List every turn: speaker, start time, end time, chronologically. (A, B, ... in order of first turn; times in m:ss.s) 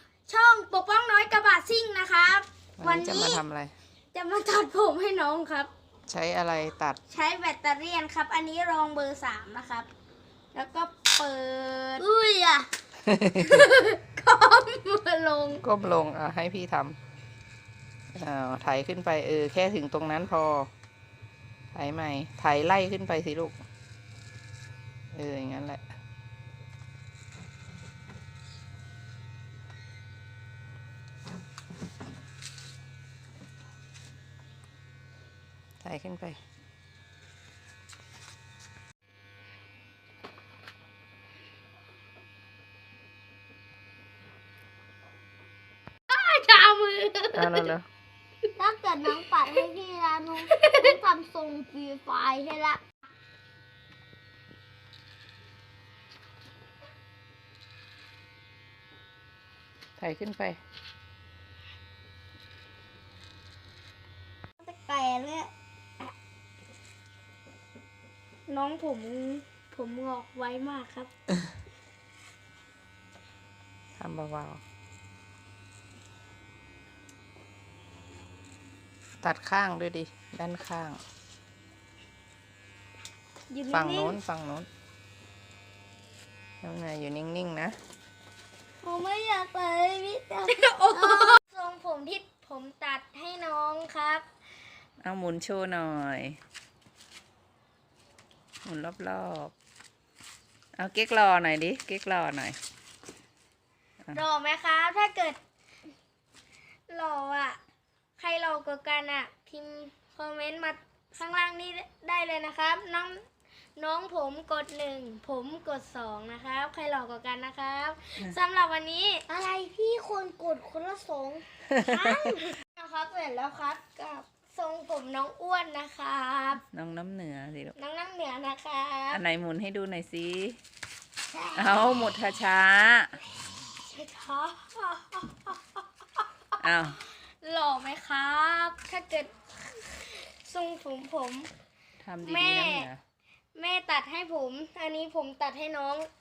0:00.3-0:03.4 A
0:02.8-0:03.7 B
0:04.1-0:05.7 A
0:06.1-0:07.0 B
0:07.1-0:09.9 A
0:10.6-0:12.7 A
0:13.1-0:13.6 B
0:13.4-0:15.6 A
0:15.6-0:17.0 B
0:18.2-0:20.7 B
0:21.7-0:23.6 B
0:25.1-0:25.8 B
0:35.8-0:36.4 B
0:46.1-0:47.6 A
0:47.3-0:47.9 B
0:48.6-0:52.8 C
0:48.6-0:49.6 A
0:50.4-0:51.0 A
1:00.0-1:00.6 B
1:04.6-1:05.5 A
1:08.5-1:11.1 A
1:14.0-1:14.6 B
1:19.2-1:21.0 B
1:23.5-1:24.2 A
1:23.7-1:24.7 B
1:26.6-1:27.8 B
1:28.8-1:31.4 C
1:30.5-1:34.2 A
1:35.0-1:36.4 B
1:38.6-1:39.5 B
1:40.8-1:42.6 B
1:44.1-1:45.4 A
1:46.9-1:47.6 A
1:48.2-1:53.2 A
1:53.8-1:59.3 A
1:59.3-2:01.4 C
2:01.8-2:02.2 B
2:01.8-2:06.6 A
2:06.7-2:07.8 B
2:07.8-2:09.2 A
2:09.1-2:10.6 B
2:11.6-2:13.2 B
2:13.9-2:15.6 A
2:16.6-2:17.0 B
2:17.4-2:19.3 A
2:20.1-2:21.5 A
2:22.0-2:23.0 B
2:22.2-2:22.9 A
2:23.6-2:26.1 A